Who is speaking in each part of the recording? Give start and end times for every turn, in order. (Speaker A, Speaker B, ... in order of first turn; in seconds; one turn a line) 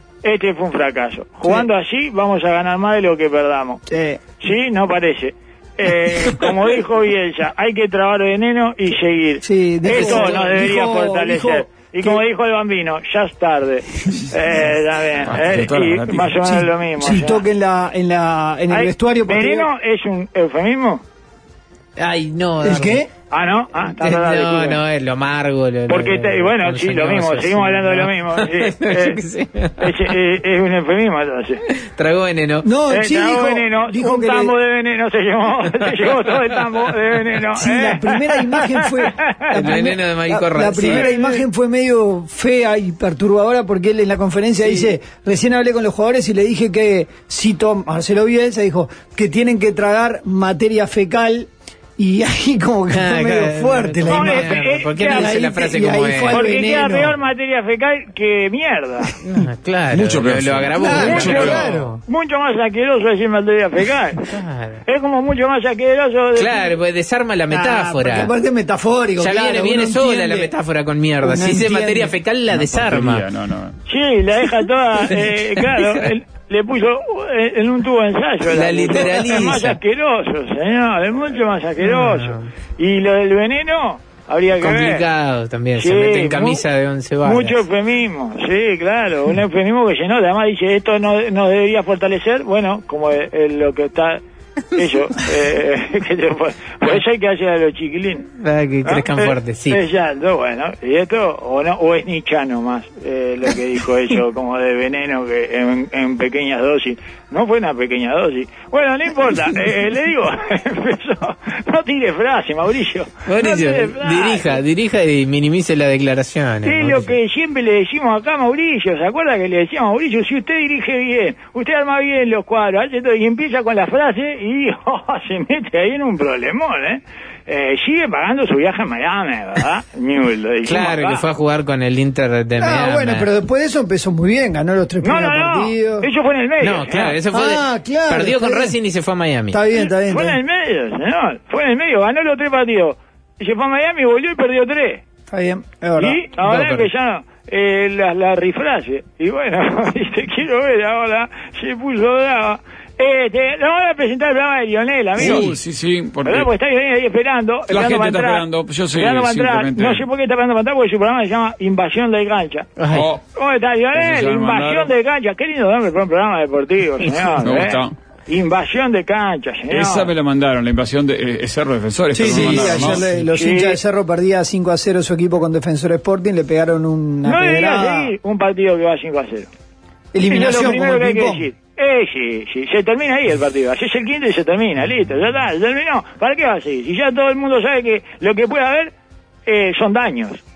Speaker A: 0.2-3.8
Speaker B: 3.9-4.2
Speaker A: 4.4-17.4
Speaker B: 9.4-12.2
Speaker C: 9.9-10.5
Speaker D: 15.2-16.4
Speaker B: 16.4-19.7
Speaker A: 18.7-21.0
Speaker C: 22.0-23.0
Speaker B: 22.6-23.1
Speaker A: 23.3-24.8
Speaker C: 23.9-30.1
Speaker A: 25.9-29.2
Speaker A: 29.8-31.6
Speaker C: 31.7-32.7
Speaker B: 32.6-34.5
Speaker A: 32.9-39.6
Speaker B: 37.5-57.2
Speaker C: 39.5-41.1
Speaker A: 40.9-41.2
Speaker C: 52.9-56.4
Speaker A: 54.1-55.3
Speaker A: 56.3-59.1
Speaker C: 59.2-62.0
Speaker D: 59.9-61.7
Speaker B: 60.8-62.0
Speaker A: 60.9-64.3
Speaker C: 64.3-64.8
Speaker A: 64.9-66.7
Speaker C: 66.4-68.3
Speaker B: 67.5-70.5
Speaker C: 69.2-73.2
Speaker B: 71.2-72.1
Speaker D: 72.5-73.8
Speaker A: 73.9-85.0
Speaker C: 75.6-76.0
Speaker C: 78.5-79.8
Speaker C: 81.8-82.5
Speaker C: 84.6-87.6
Speaker A: 85.8-86.6
Speaker A: 87.2-94.2
Speaker A: 94.7-98.3
Speaker C: 98.4-99.8
Speaker A: 98.8-114.6
Speaker C: 113.3-117.2
Speaker A: 116.6-131.2
Speaker C: 130.7-133.3
Speaker B: 132.6-136.1
Speaker A: 135.0-137.2
Speaker C: 136.6-139.6
Speaker B: 137.3-138.8
Speaker B: 139.5-140.4
Speaker A: 139.7-145.0
Speaker B: 145.3-146.2
Speaker A: 146.0-155.6
Speaker C: 146.4-146.9
Speaker D: 155.2-156.5
Speaker C: 155.2-155.6
Speaker A: 156.2-162.7
Speaker D: 157.7-160.1
Speaker C: 162.8-163.1
Speaker D: 162.9-163.2
Speaker A: 163.4-170.1
Speaker D: 163.9-164.9
Speaker D: 167.3-167.9
Speaker D: 169.7-173.1
Speaker B: 172.1-178.2
Speaker A: 172.5-173.8
Speaker A: 177.2-179.5
Speaker B: 180.1-181.5
Speaker A: 180.3-188.9
Speaker A: 189.5-190.4